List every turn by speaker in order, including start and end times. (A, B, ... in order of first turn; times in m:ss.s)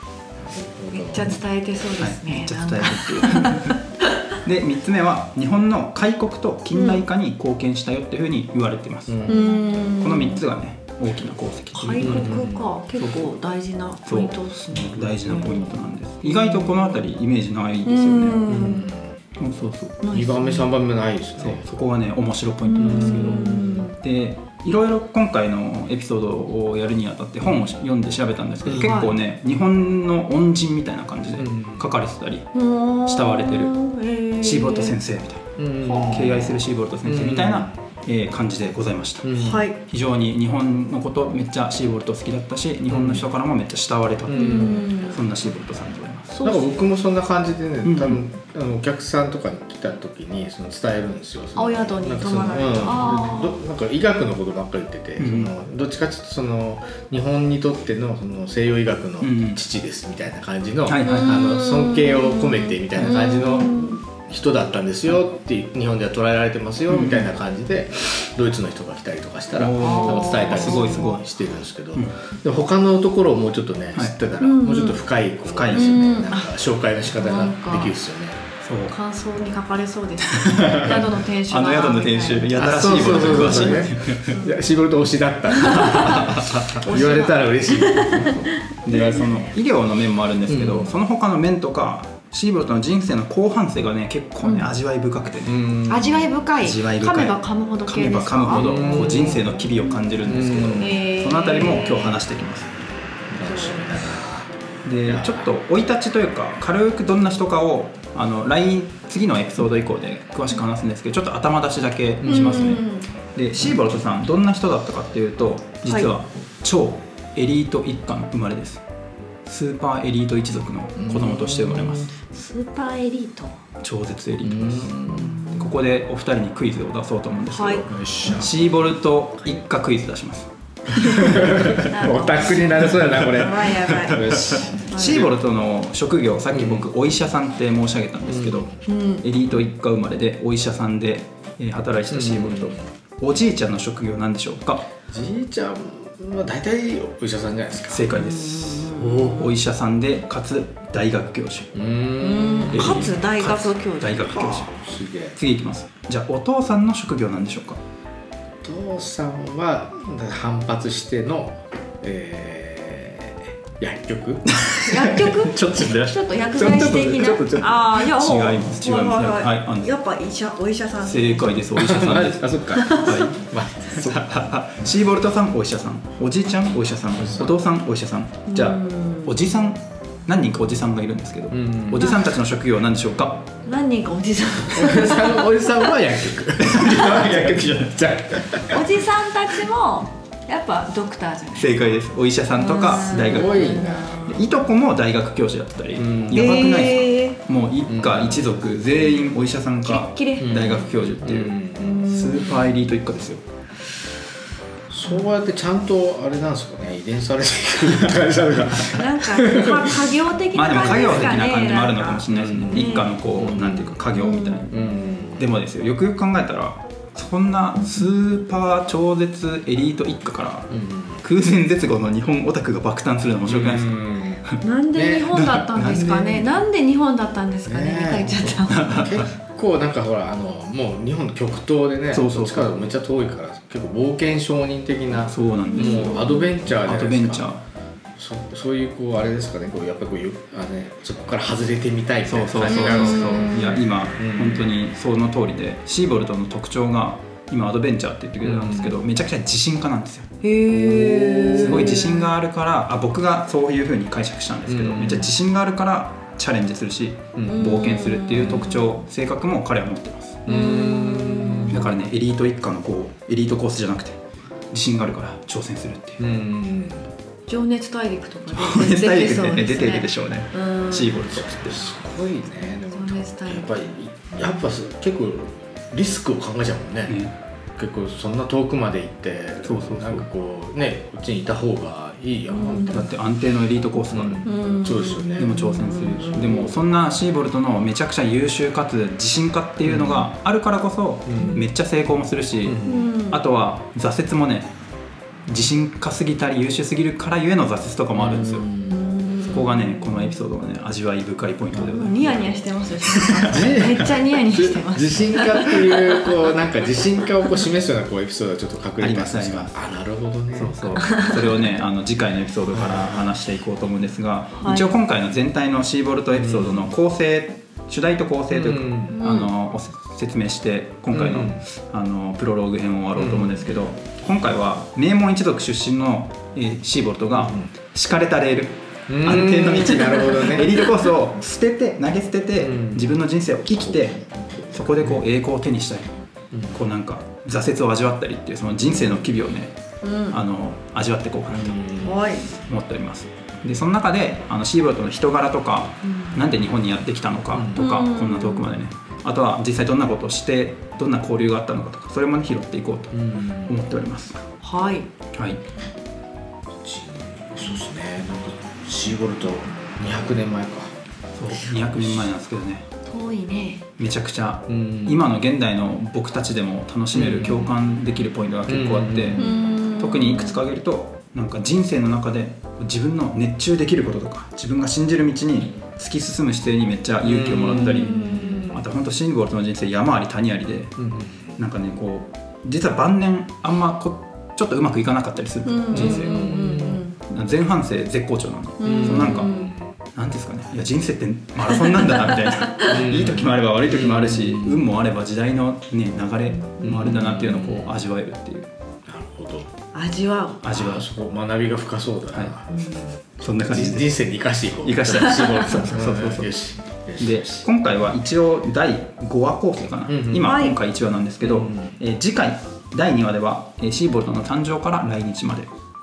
0:00.4-0:01.3 A
0:00.9-0:04.0 B
0:02.0-0:03.8 C
0:04.4-0:12.4 C
0:06.7-0:07.0 B
0:09.1-0:09.5 A
0:09.3-0:10.4 B
0:11.7-0:15.5 B
0:12.0-0:12.7 A
0:13.0-0:13.3 C
0:14.0-0:18.5 C
0:15.0-0:15.8 A
0:16.2-0:17.0 B
0:17.8-0:18.8 B
0:18.4-0:19.1 A
0:19.4-0:20.0 C
0:20.0-0:20.7 B
0:20.1-0:21.6 A
0:21.4-0:32.5 C
0:22.6-0:24.0 B
0:22.8-0:23.8 A
0:28.7-0:29.2 B
0:31.4-0:31.9 A
0:32.5-0:35.0 B
0:33.0-0:33.7 C
0:34.4-0:35.4 C
0:35.6-0:36.5 A
0:35.8-0:36.6 B
0:36.1-0:39.3 C
0:37.0-0:37.7 A
0:39.2-0:39.7 A
0:39.3-0:39.8 B
0:39.8-0:46.4 C
0:42.9-0:43.3 A
0:44.2-0:44.9 A
0:44.3-0:45.2 B
0:46.3-0:46.7 B
0:46.4-1:18.4 A
0:47.8-0:48.2 C
0:51.6-0:53.6 B
0:55.2-0:55.5 C
0:59.2-0:59.6 C
1:00.8-1:01.3 C
1:01.0-1:04.0 B
1:06.9-1:07.2 C
1:09.5-1:11.2 C
1:09.7-1:11.2 B
1:14.4-1:15.0 B
1:15.4-1:16.2 C
1:15.7-1:16.5 B
1:17.1-1:17.9 B
1:18.6-1:19.0 C
1:18.9-1:24.6 B
1:20.3-1:24.4 C
1:20.8-1:21.0 A
1:22.5-1:29.5 A
1:25.5-1:28.6 B
1:25.6-1:26.8 C
1:28.8-1:35.7 C
1:30.5-1:30.9 A
1:34.4-1:34.7 B
1:35.4-1:36.4 A
1:35.8-1:40.0 B
1:36.6-1:42.7 C
1:38.5-1:39.5 A
1:40.2-1:41.0 A
1:40.7-1:42.2 B
1:43.3-1:45.5 A
1:43.4-1:44.0 B
1:44.8-1:58.8 C
1:52.2-1:52.5 A
1:52.2-1:53.1 B
1:55.8-1:56.1 B
1:59.4-2:02.1 C
2:01.0-2:02.1 A
2:02.2-2:03.6 B
2:03.8-2:11.8 C
2:04.4-2:05.6 A
2:05.1-2:05.5 B
2:07.5-2:07.8 B
2:07.9-2:08.5 A
2:11.0-2:15.3 A
2:11.0-2:15.3 B
2:12.9-2:13.2 C
2:13.9-2:24.8 C
2:16.5-2:16.9 A
2:18.3-2:18.7 A
2:18.8-2:19.2 B
2:22.1-2:22.8 A
2:25.1-2:28.1 A
2:27.9-2:31.7 C
2:28.1-2:29.6 B
2:31.7-2:33.2 A
2:32.2-2:34.7 B
2:32.7-2:34.7 C
2:34.7-2:35.4 A
2:35.3-2:37.8 C
2:38.6-2:47.9 A
2:44.5-2:44.9 C
2:44.8-2:51.6 B
2:47.9-2:49.9 C
2:51.0-3:03.5 C
2:51.8-2:54.3 A
2:52.7-2:53.3 B
2:57.2-2:57.5 A
2:58.5-2:59.3 B
3:01.5-3:02.0 A
3:01.9-3:02.4 B
3:03.6-3:05.9 B
3:04.7-3:09.0 A
3:06.6-3:08.0 C
3:06.8-3:07.2 B
3:08.7-3:12.0 B
3:11.5-3:23.4 C
3:12.6-3:14.5 B
3:13.0-3:14.4 A
3:15.9-3:16.7 A
3:16.3-3:17.4 B
3:17.9-3:18.5 A
3:19.8-3:20.9 B
3:20.4-3:22.0 A
3:21.8-3:22.8 B
3:24.9-3:31.2 A
3:28.9-3:33.1 B
3:30.5-3:34.8 C
3:32.3-3:34.0 A
3:34.1-3:34.7 B
3:34.7-3:35.4 A
3:35.4-3:44.6 C
3:40.7-3:41.2 A
3:43.4-3:44.4 A
3:44.6-3:49.1 B
3:44.9-3:46.3 A
3:45.4-3:46.4 C
3:47.6-3:57.5 A
3:48.4-3:49.3 C
3:52.1-3:52.8 C
3:55.2-3:57.6 C
3:55.7-3:56.5 B
3:58.2-4:03.6 A
4:02.2-4:10.3 C
4:02.6-4:03.8 B
4:04.2-4:04.7 A
4:08.4-4:09.0 A
4:10.4-4:12.3 B
4:10.7-4:12.0 A
4:11.5-4:20.4 C
4:14.7-4:15.3 A
4:17.4-4:17.7 A
4:17.4-4:18.9 B
4:18.4-4:18.6 A
4:20.4-4:21.9 A
4:20.5-4:21.9 B
4:21.7-4:24.2 C
4:24.7-4:26.2 C
4:26.2-4:27.1 A
4:27.5-4:31.3 B
4:28.5-4:31.9 C
4:31.3-4:37.2 A
4:32.6-4:33.9 B
4:37.1-4:37.3 C
4:37.8-4:43.2 A
4:39.6-4:40.3 C
4:42.5-4:43.0 B
4:42.9-4:44.5 C
4:44.1-4:45.5 A
4:44.4-4:46.7 B
4:45.4-4:54.7 C
4:49.8-4:50.3 A
4:51.2-4:51.6 A
4:52.6-4:53.1 A
4:52.8-4:53.4 B
4:55.5-4:58.7 C
4:58.2-4:59.2 A
4:58.8-5:00.4 B
4:59.4-5:03.8 C
5:01.7-5:06.2 B
5:03.5-5:10.8 A
5:09.0-5:09.8 C
5:10.5-5:36.1 C
5:11.0-5:11.7 B
5:12.7-5:13.2 A
5:14.5-5:15.0 B
5:16.3-5:16.8 A
5:18.5-5:19.1 A
5:19.1-5:19.5 B
5:21.1-5:21.6 A
5:23.2-5:23.7 A
5:29.1-5:30.9 A
5:30.0-5:30.5 B
5:32.6-5:33.2 A
5:34.7-5:35.2 A
5:36.7-5:39.8 C
5:40.0-5:40.4 B
5:40.3-5:41.9 C
5:41.5-5:42.2 A
5:42.0-5:42.5 B
5:42.5-5:54.4 C
5:46.0-5:46.4 B
5:47.5-5:47.8 A
5:47.7-5:48.8 B
5:53.1-5:53.8 A
5:54.6-5:55.1 B
5:55.3-5:55.6 C
5:56.8-6:00.9 A
6:01.3-6:02.9 C
6:01.7-6:02.3 A
6:03.0-6:03.8 B
6:04.0-6:21.0 C
6:04.7-6:05.3 A
6:07.1-6:07.8 A
6:08.7-6:09.6 A
6:09.4-6:10.6 B
6:17.2-6:18.7 A
6:17.7-6:18.8 B
6:21.0-6:21.6 A
6:21.6-6:26.5 C
6:25.6-6:27.2 B
6:25.9-6:27.0 A
6:27.2-6:29.5 C
6:28.8-6:29.7 B
6:28.8-6:29.9 A
6:30.1-6:38.7 C
6:31.7-6:33.0 B
6:32.8-6:34.9 A
6:36.8-6:38.0 A
6:39.1-6:39.7 A
6:39.9-6:40.8 B
6:40.6-6:41.0 C
6:40.7-6:42.7 A
6:42.7-6:43.2 B
6:43.4-6:44.1 C
6:43.4-6:47.6 A
6:44.8-6:46.5 C
6:45.4-6:45.6 B
6:47.2-6:55.7 C
6:50.1-6:50.4 A
6:50.3-6:50.8 B
6:51.4-6:52.0 A